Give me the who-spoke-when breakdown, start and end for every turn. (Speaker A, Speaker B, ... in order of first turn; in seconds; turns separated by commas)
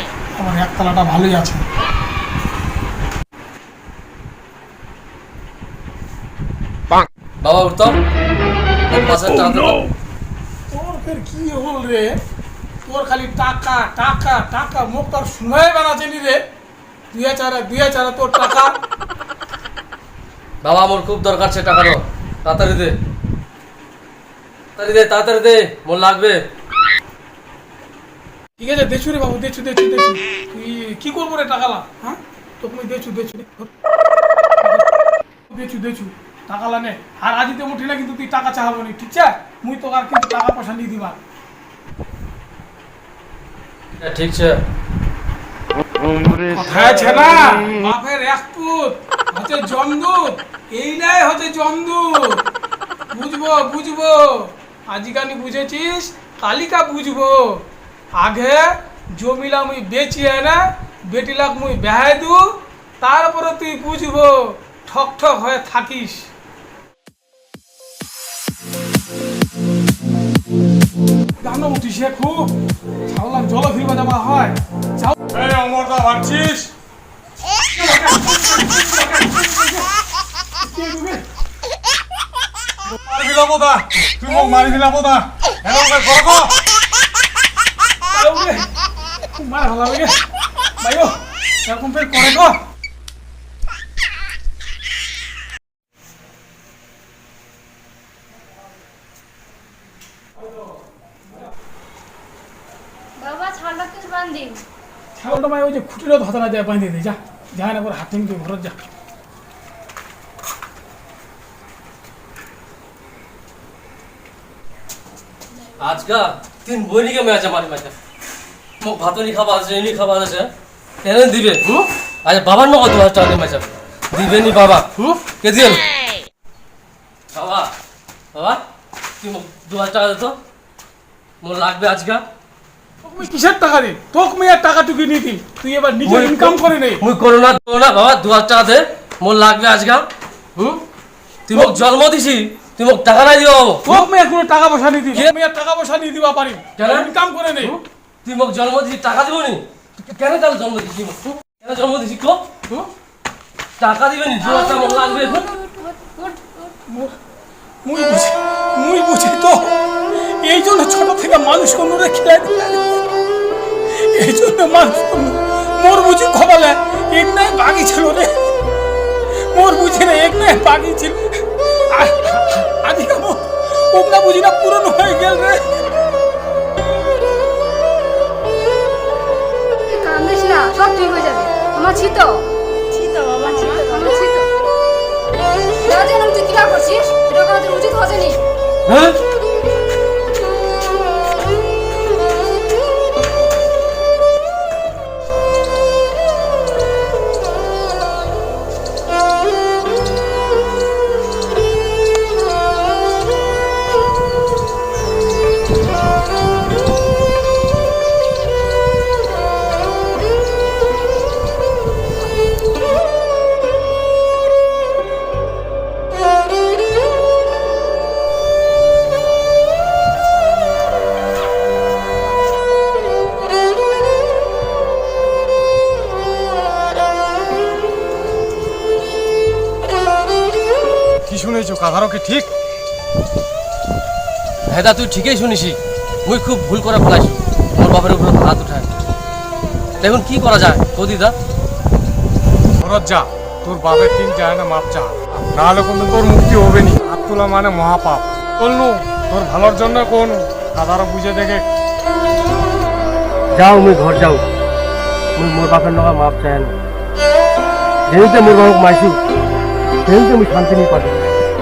Speaker A: 0.3-1.6, Speaker B: 7.4-8.0, Speaker B: 8.9-9.9, Speaker A: 10.7-12.2, Speaker A: 12.8-16.4, Speaker A: 17.1-18.7, Speaker B: 20.6-22.9, Speaker B: 24.8-26.4, Speaker A: 28.6-33.7, Speaker A: 35.5-41.2, Speaker B: 44.0-44.6, Speaker A: 46.4-52.4, Speaker A: 53.1-57.6, Speaker A: 58.2-66.3, Speaker A: 71.4-72.5, Speaker A: 73.1-75.2, Speaker C: 75.3-76.7, Speaker A: 77.7-79.9, Speaker A: 80.6-81.2, Speaker C: 82.9-86.6, Speaker A: 88.1-88.7, Speaker A: 89.2-90.2, Speaker A: 90.8-92.6, Speaker D: 103.2-104.6, Speaker A: 105.2-108.8, Speaker B: 115.8-117.9, Speaker B: 118.8-120.5, Speaker B: 121.0-125.8, Speaker B: 127.3-127.7, Speaker B: 128.3-128.6, Speaker B: 129.2-130.3, Speaker B: 131.4-132.2, Speaker A: 133.0-137.0, Speaker B: 136.1-140.0, Speaker B: 140.6-140.8, Speaker B: 141.5-144.0, Speaker A: 141.5-141.8, Speaker A: 143.8-147.8, Speaker B: 146.8-147.1, Speaker B: 147.6-152.9, Speaker B: 153.8-155.5, Speaker D: 154.4-156.7, Speaker A: 156.8-157.2, Speaker A: 157.8-163.0, Speaker A: 163.9-168.4, Speaker A: 169.4-175.8, Speaker E: 179.9-182.4, Speaker D: 182.9-184.3, Speaker E: 183.4-184.5, Speaker E: 185.8-188.4, Speaker B: 188.8-189.2, Speaker C: 231.3-232.5, Speaker B: 234.7-238.9, Speaker B: 240.0-241.3, Speaker C: 242.8-251.6, Speaker B: 253.5-254.4, Speaker B: 255.3-256.7, Speaker B: 258.1-259.2, Speaker B: 260.1-261.2